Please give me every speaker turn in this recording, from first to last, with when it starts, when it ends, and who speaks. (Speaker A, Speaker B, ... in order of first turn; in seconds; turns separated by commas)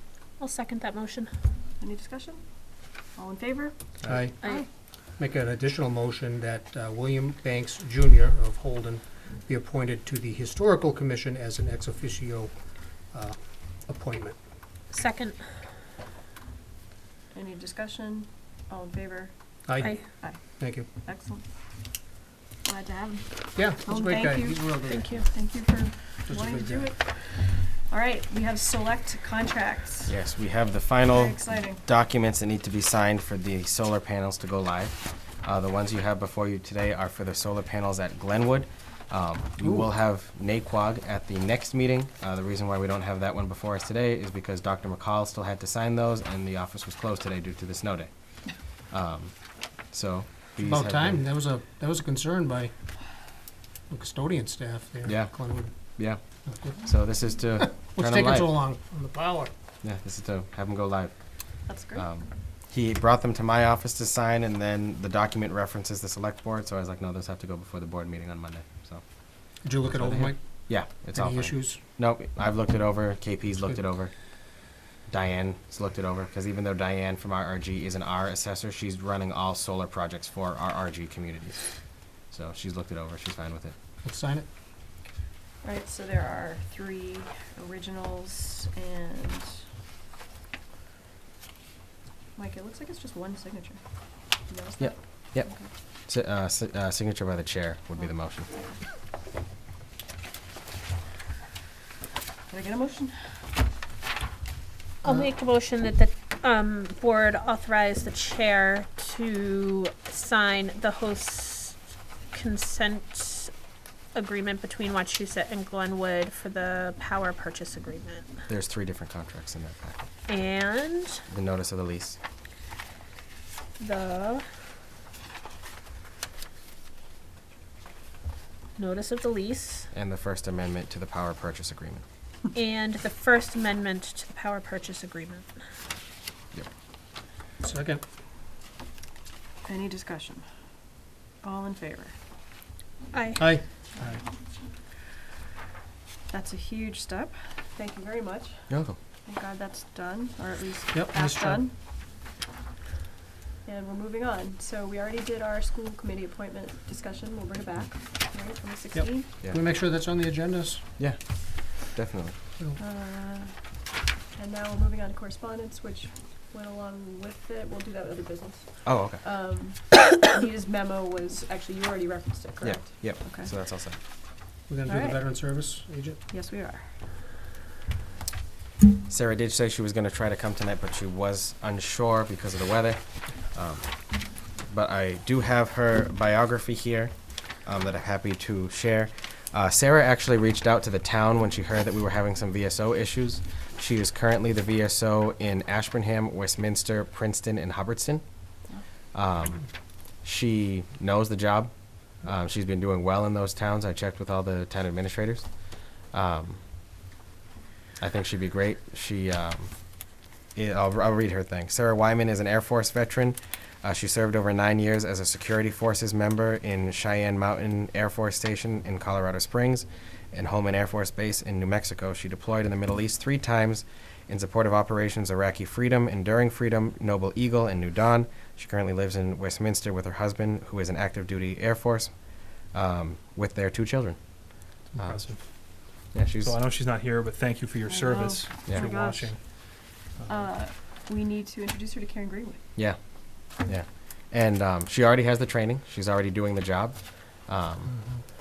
Speaker A: 0.4-1.3, Speaker B: 1.8-3.8, Speaker C: 4.1-4.3, Speaker B: 4.4-4.7, Speaker C: 5.2-12.5, Speaker C: 13.1-14.3, Speaker A: 14.9-15.4, Speaker B: 17.3-21.4, Speaker C: 19.6-20.9, Speaker B: 22.6-30.2, Speaker C: 23.5-25.2, Speaker A: 24.9-25.3, Speaker C: 26.2-26.9, Speaker D: 30.1-51.2, Speaker B: 31.1-31.8, Speaker C: 50.6-52.7, Speaker C: 53.9-59.5, Speaker D: 55.0-56.2, Speaker D: 56.7-58.6, Speaker D: 59.8-83.7, Speaker B: 61.6-62.1, Speaker C: 69.6-71.8, Speaker C: 84.0-84.5, Speaker B: 85.6-89.6, Speaker B: 92.3-93.8, Speaker B: 94.4-95.7, Speaker D: 94.8-95.5, Speaker D: 96.1-98.5, Speaker B: 98.0-98.8, Speaker B: 102.5-103.4, Speaker A: 105.0-111.8, Speaker A: 112.3-113.5, Speaker A: 114.1-118.3, Speaker D: 118.5-120.0, Speaker A: 120.3-121.2, Speaker D: 121.3-122.2, Speaker A: 123.8-124.4, Speaker A: 128.8-129.8, Speaker D: 129.9-132.0, Speaker A: 132.5-135.5, Speaker C: 137.6-138.0, Speaker B: 139.6-140.4, Speaker B: 141.4-142.2, Speaker A: 143.1-143.5, Speaker C: 143.4-144.2, Speaker B: 146.3-151.7, Speaker D: 148.7-149.0, Speaker C: 150.9-151.7, Speaker B: 153.6-159.3, Speaker C: 158.9-160.8, Speaker D: 161.0-162.3, Speaker B: 162.8-163.8, Speaker B: 164.3-173.5, Speaker D: 168.8-169.2, Speaker D: 172.6-174.0, Speaker C: 174.7-176.2, Speaker B: 174.9-175.2, Speaker B: 176.3-176.9, Speaker D: 179.1-198.5, Speaker D: 199.1-199.7, Speaker D: 200.2-206.6, Speaker D: 208.0-236.6, Speaker E: 234.8-240.5, Speaker B: 237.9-239.5, Speaker B: 240.3-242.6, Speaker D: 242.7-247.9